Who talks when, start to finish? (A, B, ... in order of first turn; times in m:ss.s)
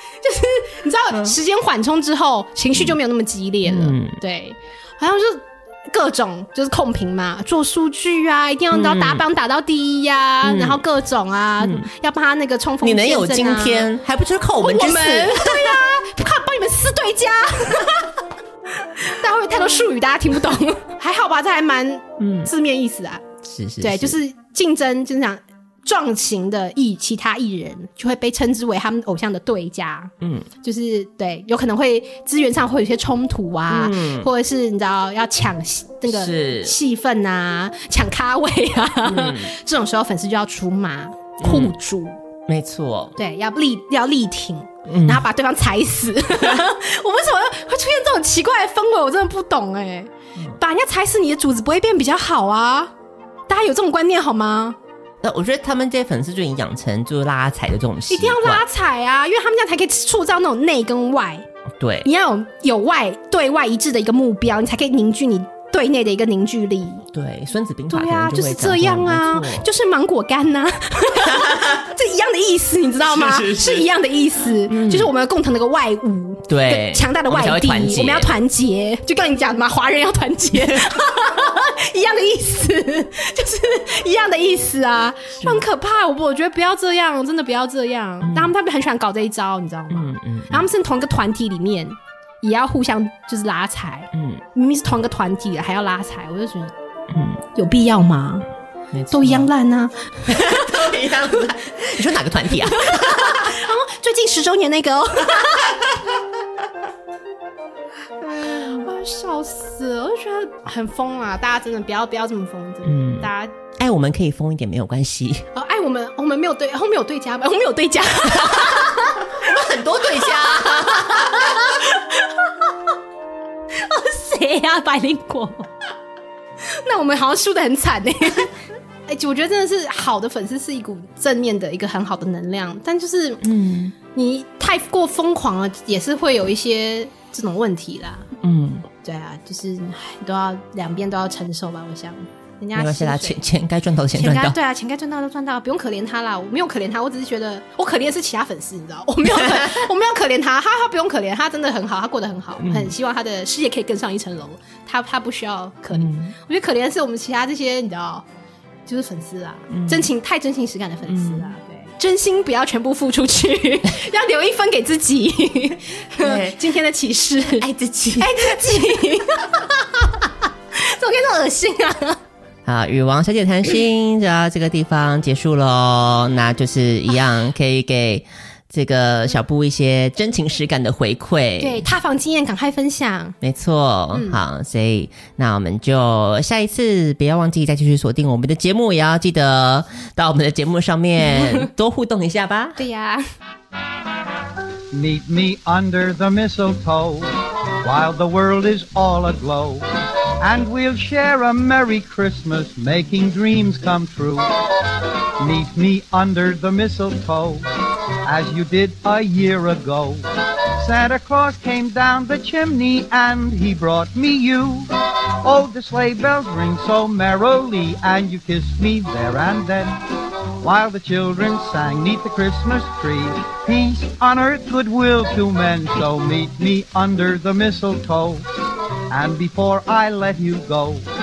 0:00.2-0:13.9 A
0:03.6-0:04.2 B
0:08.7-0:09.2 B
0:10.4-0:10.8 B
0:11.6-0:11.9 B
0:12.8-0:15.8 B
0:14.6-0:18.1 A
0:19.0-0:23.2 A
0:22.2-0:22.5 B
0:23.4-0:24.2 B
0:23.8-0:42.2 A
0:30.2-0:30.5 B
0:33.7-0:34.3 B
0:36.0-0:36.7 B
0:39.0-0:39.5 B
0:41.4-0:41.7 B
0:42.5-0:43.1 B
0:43.2-0:52.9 A
0:44.9-0:45.2 B
0:53.5-0:54.8 A
0:55.2-0:58.6 B
0:58.1-1:01.5 A
1:01.8-1:02.1 B
1:02.0-1:07.0 A
1:07.1-1:09.7 B
1:07.9-1:36.7 A
1:11.2-1:11.9 B
1:13.0-1:13.9 B
1:14.7-1:15.1 B
1:16.5-1:18.4 B
1:20.5-1:20.8 B
1:28.2-1:28.5 B
1:29.9-1:30.7 B
1:34.1-1:34.4 B
1:37.1-1:37.4 B
1:37.5-1:38.4 A
1:38.9-1:39.5 B
1:39.1-1:40.9 A
1:40.3-1:43.6 B
1:42.6-1:45.7 A
1:45.3-1:46.4 B
1:48.3-1:48.8 B
1:48.4-1:53.5 A
1:52.8-1:55.4 B
1:55.5-1:59.5 A
1:58.3-2:01.7 B
2:00.1-2:02.4 A
2:03.7-2:05.7 A
2:06.7-2:08.5 A
2:09.1-2:13.4 A
2:13.4-2:13.9 B
2:14.1-2:18.3 A
2:18.4-2:18.8 B
2:19.0-2:23.4 A
2:22.8-2:24.6 B
2:24.1-2:38.2 A
2:29.3-2:29.8 B
2:32.6-2:32.9 B
2:35.9-2:36.4 B
2:38.9-2:50.0 A
2:39.7-2:40.1 B
2:41.0-2:41.5 B
2:46.2-2:46.6 B
2:47.6-2:48.7 B
2:50.7-2:52.2 A
2:52.6-3:01.9 B
3:01.6-3:03.4 A
3:03.4-3:12.8 B
3:04.1-3:04.4 A
3:11.3-3:11.6 A
3:12.8-3:13.2 A
3:14.9-3:17.3 C
3:17.8-3:19.8 C
3:20.4-3:24.4 C
3:25.4-3:27.6 C
3:28.3-3:30.2 C
3:30.8-3:34.9 C
3:35.4-3:40.0 C
3:40.6-3:48.4 C
3:49.1-3:51.0 C